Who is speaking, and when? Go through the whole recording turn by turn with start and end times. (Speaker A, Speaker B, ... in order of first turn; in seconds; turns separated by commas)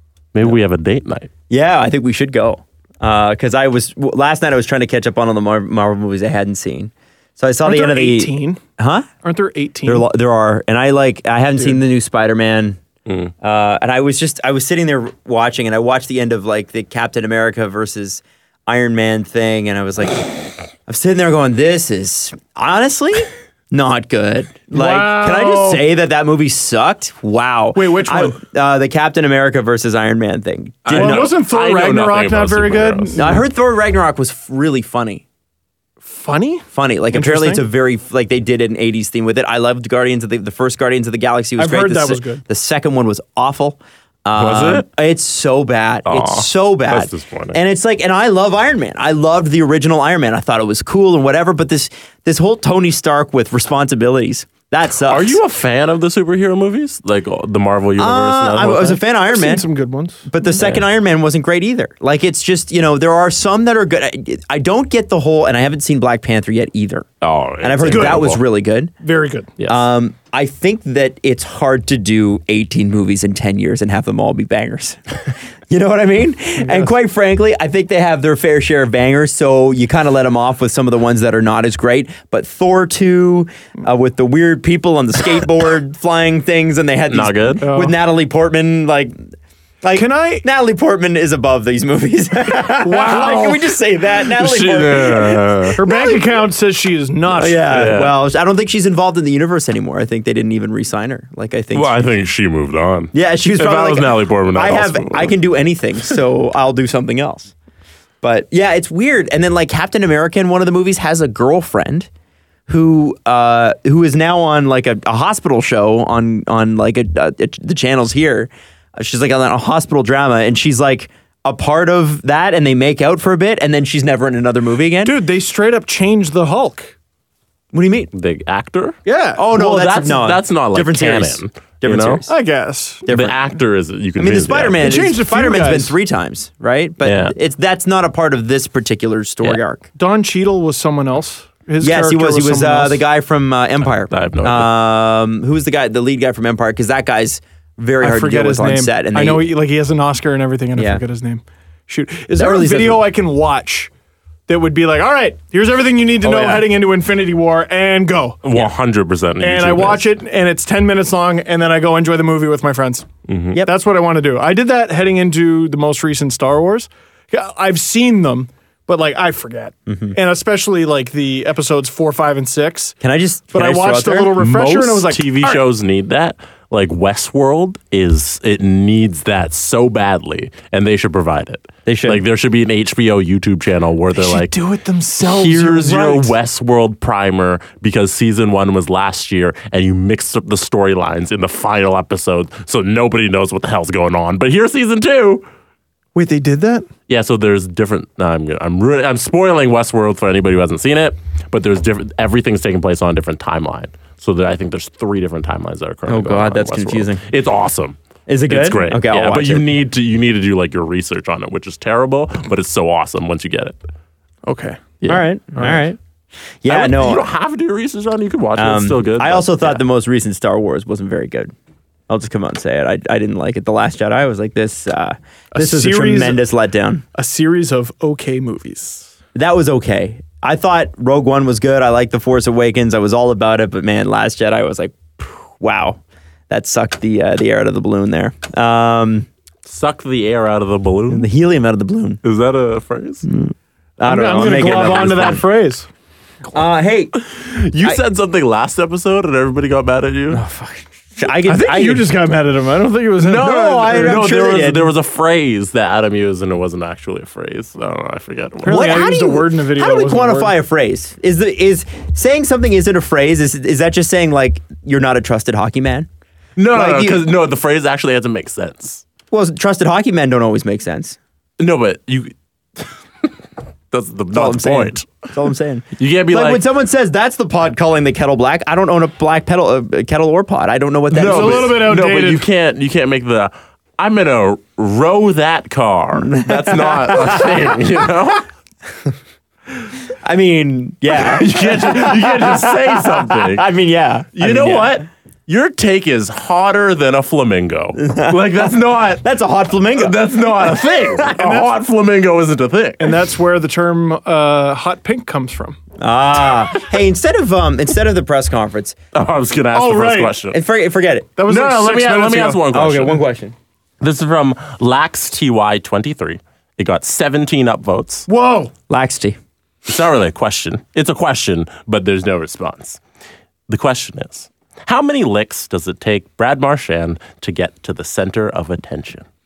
Speaker A: 0.3-1.3, Speaker B: 1.5-9.1, Speaker C: 7.7-8.6, Speaker C: 9.2-10.1, Speaker B: 9.9-12.8, Speaker B: 13.4-31.3, Speaker C: 24.7-25.9, Speaker C: 27.7-28.4, Speaker A: 30.9-33.3, Speaker C: 30.9-33.4, Speaker B: 33.2-35.2, Speaker C: 36.0-37.6, Speaker B: 36.7-55.4, Speaker C: 41.6-42.4, Speaker A: 44.4-44.9, Speaker A: 46.1-47.6, Speaker A: 55.0-59.0, Speaker B: 58.0-59.6, Speaker C: 59.3-60.3, Speaker B: 60.3-67.1, Speaker A: 67.2-68.4, Speaker B: 67.6-68.9, Speaker C: 67.9-68.3, Speaker C: 69.0-69.5, Speaker B: 69.7-89.3, Speaker C: 76.6-76.9, Speaker A: 87.1-87.6, Speaker C: 87.6-88.0, Speaker B: 89.8-96.2, Speaker C: 89.9-90.4, Speaker C: 92.8-93.7, Speaker A: 94.3-95.8, Speaker C: 95.8-97.8, Speaker B: 97.4-102.1, Speaker A: 97.5-98.1, Speaker A: 101.7-105.3, Speaker B: 103.1-107.5, Speaker B: 108.2-112.1, Speaker B: 112.7-125.2, Speaker C: 125.0-127.0, Speaker B: 127.7-128.1, Speaker A: 128.1-129.0, Speaker C: 129.1-129.6, Speaker B: 129.4-132.3, Speaker A: 129.5-132.2, Speaker C: 132.3-133.1, Speaker B: 133.1-133.4, Speaker A: 133.1-134.9, Speaker B: 134.2-139.8, Speaker C: 134.8-135.9, Speaker A: 137.0-137.3, Speaker C: 140.0-143.0, Speaker B: 141.8-149.4, Speaker A: 144.0-144.7, Speaker C: 148.0-153.9, Speaker B: 150.8-151.0, Speaker B: 152.3-153.1, Speaker C: 154.5-158.4, Speaker B: 156.2-156.7, Speaker A: 158.4-160.1, Speaker C: 159.4-163.1, Speaker A: 163.3-163.6, Speaker C: 163.6-173.0, Speaker B: 169.9-170.2, Speaker B: 173.0-174.5, Speaker C: 173.5-175.6, Speaker A: 174.4-184.5, Speaker B: 181.9-182.2, Speaker C: 184.1-186.3, Speaker A: 185.3-195.5, Speaker C: 196.2-196.9, Speaker A: 197.1-213.8, Speaker B: 206.1-207.2, Speaker B: 208.3-209.7, Speaker C: 214.5-214.8, Speaker B: 215.1-216.0, Speaker C: 215.6-215.8, Speaker B: 216.6-217.3, Speaker A: 216.7-219.8, Speaker B: 218.6-221.5, Speaker B: 222.1-227.0, Speaker C: 225.5-226.5, Speaker C: 227.1-229.1, Speaker B: 229.3-239.3, Speaker A: 239.7-241.3, Speaker B: 241.1-242.2, Speaker A: 242.2-243.3, Speaker B: 243.3-245.4, Speaker C: 244.0-245.9, Speaker A: 244.8-245.4, Speaker B: 246.5-247.2, Speaker A: 247.2-250.4, Speaker B: 250.3-252.1, Speaker C: 251.4-254.2, Speaker A: 253.2-259.0, Speaker B: 253.4-254.9, Speaker C: 258.6-260.5, Speaker B: 258.7-266.1, Speaker A: 266.6-269.0, Speaker B: 266.7-267.2, Speaker B: 269.3-271.2, Speaker A: 271.6-273.3, Speaker A: 273.9-275.3, Speaker B: 274.3-281.8, Speaker A: 276.0-276.6, Speaker A: 281.1-288.5, Speaker C: 281.2-282.4, Speaker B: 286.2-287.8, Speaker B: 290.1-295.0, Speaker A: 291.2-293.6, Speaker A: 294.4-299.2, Speaker B: 298.0-298.7, Speaker B: 299.2-301.6, Speaker A: 299.9-303.1, Speaker C: 301.4-301.7, Speaker C: 303.0-305.8, Speaker B: 306.0-309.0, Speaker A: 309.1-310.6, Speaker C: 309.7-310.4, Speaker B: 310.5-311.3, Speaker C: 311.4-312.6, Speaker A: 311.5-313.2, Speaker B: 312.7-313.6, Speaker A: 314.0-318.3, Speaker C: 318.3-318.7, Speaker B: 318.9-319.4, Speaker A: 319.9-323.0, Speaker A: 323.7-329.3